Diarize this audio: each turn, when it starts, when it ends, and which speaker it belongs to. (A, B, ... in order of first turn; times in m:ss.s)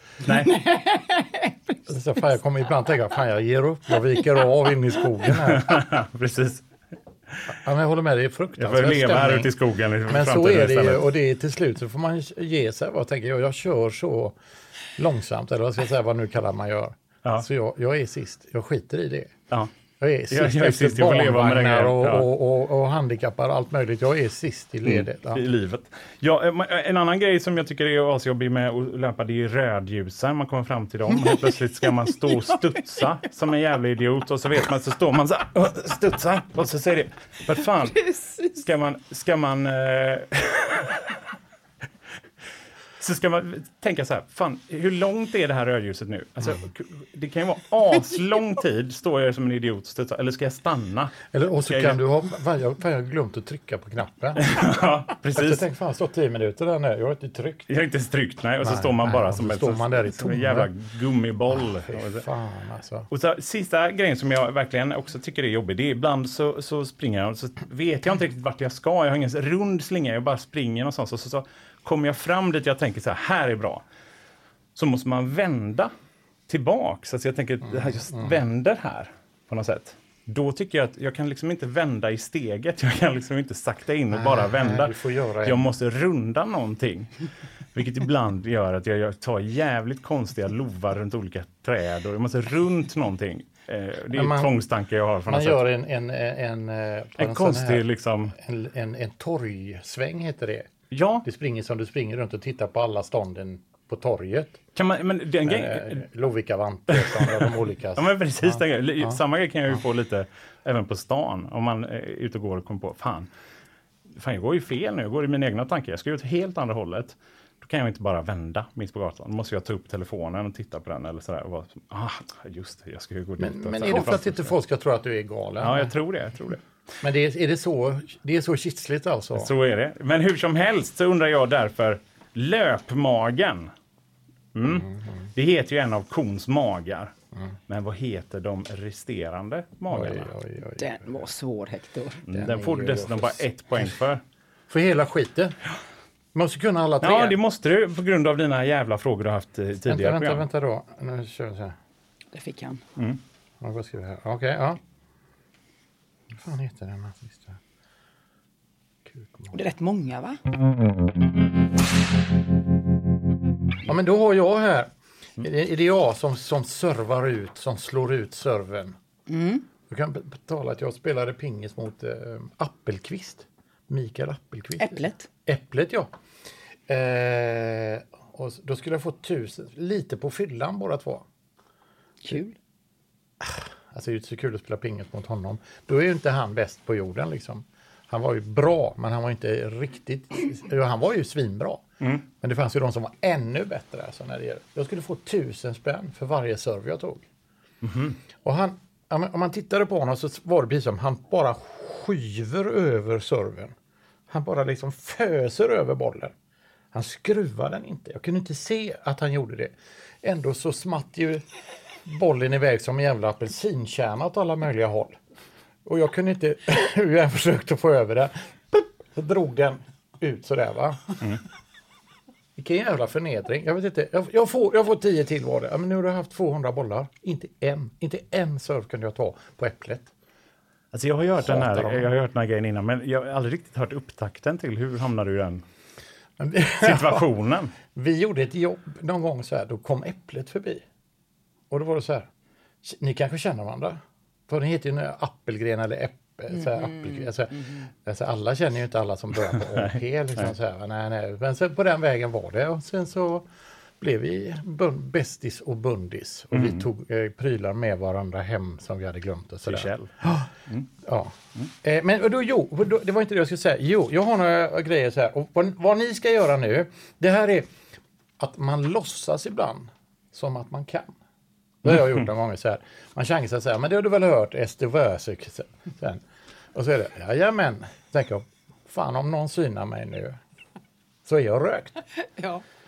0:00.2-0:00.5 A
0:00.3-0:01.8 B
0:01.9-0:05.8 C
0:05.4-0:06.6 A
0:07.5-0:09.5 C
0:08.6-0:11.1 A
0:10.1-0:14.4 C
0:15.0-0:19.3 C
0:20.0-0:25.4 C
0:20.3-0:22.3 A
0:24.8-0:41.2 A
0:37.8-0:38.6 B
0:43.0-0:52.0 A
0:51.3-0:54.4 C
0:54.4-0:55.6 A
0:55.3-0:57.7 C
0:57.7-1:02.2 A
0:58.6-1:00.7 C
1:01.5-1:03.1 C
1:03.1-1:13.8 A
1:14.7-1:15.9 A
1:16.5-1:27.2 A
1:17.6-1:18.3 C
1:24.1-1:25.7 C
1:27.7-1:35.6 A
1:34.1-1:34.5 C
1:35.3-1:40.7 C
1:37.2-1:38.3 A
1:40.9-1:41.2 A
1:41.2-1:44.6 C
1:44.7-1:46.0 A
1:45.4-1:49.2 C
1:46.9-1:53.3 A
1:54.1-2:04.5 A
2:03.4-2:05.9 C
2:05.6-2:06.6 A
2:07.0-2:09.5 C
2:09.3-2:13.7 A
2:14.5-2:17.1 A
2:14.7-2:15.0 C
2:17.7-2:20.3 A
2:19.9-2:21.2 C
2:20.8-2:22.2 B
2:22.3-2:24.2 A
2:22.3-2:23.4 C
2:24.7-2:25.6 C
2:26.3-2:27.4 C
2:27.0-2:30.4 A
2:29.8-2:31.7 C
2:32.3-2:32.8 B
2:33.6-2:34.8 C
2:36.3-2:37.6 C
2:39.1-2:39.5 C
2:39.5-2:40.4 B
2:43.8-2:49.0 C
2:49.3-2:49.6 B
2:49.9-2:56.1 C
2:54.8-2:55.3 B
2:56.9-3:01.2 C
3:02.2-3:02.6 B
3:03.4-3:17.2 C
3:17.8-3:18.2 A
3:18.4-3:23.7 C
3:24.3-3:26.3 C
3:26.9-3:31.4 C
3:32.0-3:35.2 C
3:35.8-3:41.2 C
3:42.6-3:50.1 C
3:50.9-3:55.6 A
3:51.4-3:52.1 C
3:56.4-3:57.3 C
3:56.8-3:57.7 A
3:57.9-4:00.8 C
4:01.7-4:02.3 C
4:02.8-4:13.5 C
4:06.5-4:07.9 B
4:14.0-4:20.5 C
4:16.5-4:16.8 A
4:19.7-4:20.1 A
4:21.0-4:27.7 C
4:28.4-4:31.1 C
4:31.8-4:36.2 C
4:36.7-4:40.4 C
4:41.2-4:42.0 C
4:42.4-4:42.6 B